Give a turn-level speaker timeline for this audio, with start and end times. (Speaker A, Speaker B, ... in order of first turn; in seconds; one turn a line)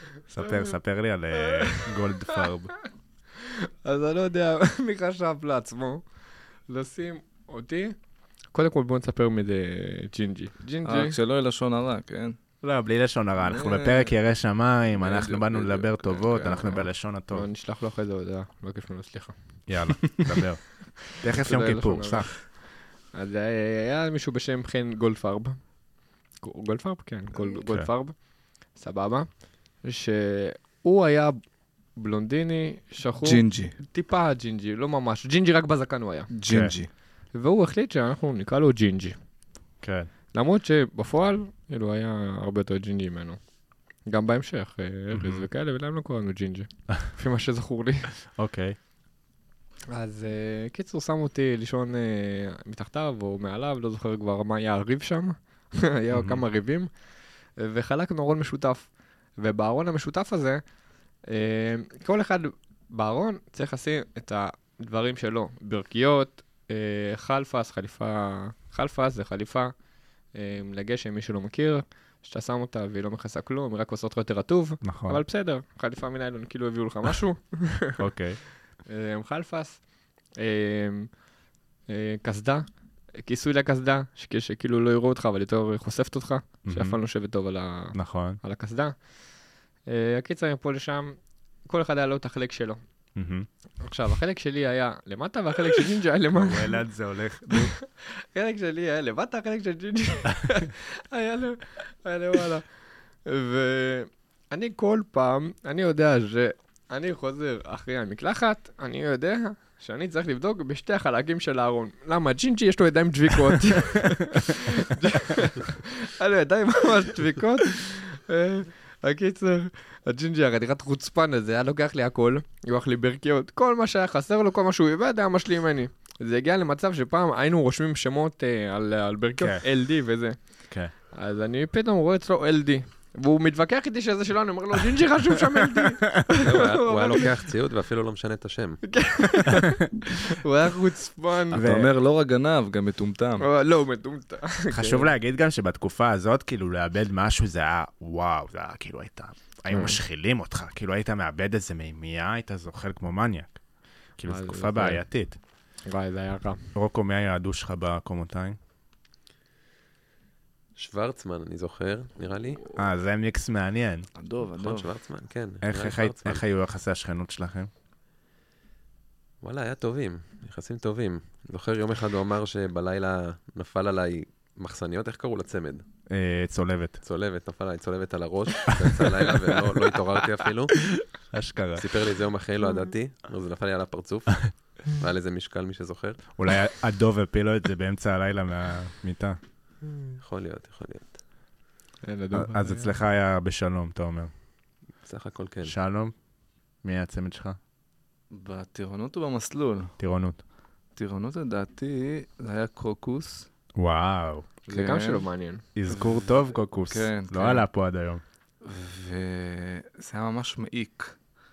Speaker A: 0.3-2.7
Speaker B: 3.4-6.0
Speaker B: 6.7-8.0
Speaker B: 8.5-11.1
Speaker C: 10.8-12.4
Speaker A: 12.6-17.5
Speaker C: 13.4-14.1
Speaker C: 15.0-16.9
Speaker B: 17.3-19.3
Speaker A: 19.7-22.3
Speaker B: 21.2-22.5
Speaker B: 23.1-25.6
Speaker B: 26.4-28.1
Speaker B: 28.7-29.3
Speaker B: 29.8-31.4
Speaker B: 32.0-36.3
Speaker C: 33.2-33.7
Speaker C: 36.3-36.9
Speaker A: 36.5-36.8
Speaker B: 37.3-39.2
Speaker A: 39.8-40.1
Speaker B: 40.3-43.4
Speaker B: 44.1-48.1
Speaker A: 45.1-45.5
Speaker A: 48.4-48.8
Speaker B: 49.9-56.9
Speaker A: 56.1-56.4
Speaker B: 57.6-60.6
Speaker B: 61.3-69.7
Speaker B: 70.3-78.0
Speaker A: 74.8-75.2
Speaker A: 78.0-78.4
Speaker B: 78.9-79.8
Speaker B: 80.4-81.1
Speaker B: 81.9-82.7
Speaker B: 83.2-89.0
Speaker A: 86.6-87.0
Speaker A: 87.9-88.4
Speaker B: 89.9-92.8
Speaker A: 93.2-93.5
Speaker B: 93.8-96.8
Speaker A: 96.3-97.7
Speaker B: 97.5-102.7
Speaker B: 103.2-130.4
Speaker A: 129.4-129.6
Speaker B: 131.1-137.4
Speaker A: 135.6-136.2
Speaker D: 136.4-138.8
Speaker B: 138.8-141.6
Speaker C: 141.5-143.4
Speaker A: 141.5-141.9
Speaker B: 143.4-145.1
Speaker A: 144.7-153.6
Speaker B: 149.7-150.0
Speaker A: 154.2-155.4
Speaker B: 154.2-155.0
Speaker B: 155.9-156.6
Speaker A: 156.8-158.6
Speaker D: 160.8-162.6
Speaker A: 162.8-164.1
Speaker C: 164.2-164.9
Speaker D: 164.6-166.4
Speaker A: 165.6-167.7
Speaker D: 169.4-175.8
Speaker A: 176.1-177.0
Speaker D: 177.0-180.7
Speaker A: 178.7-179.3
Speaker A: 180.8-181.9
Speaker D: 181.8-186.2
Speaker A: 186.4-189.4
Speaker D: 190.2-191.2
Speaker B: 192.0-192.9
Speaker A: 192.3-194.3
Speaker D: 195.0-195.8
Speaker A: 195.6-196.1
Speaker A: 196.8-197.6
Speaker C: 198.3-199.9
Speaker A: 200.0-200.4
Speaker C: 200.9-203.5
Speaker A: 203.8-204.5
Speaker B: 204.7-205.6
Speaker C: 204.7-205.3
Speaker A: 205.8-208.2
Speaker C: 205.9-207.7
Speaker C: 208.6-211.1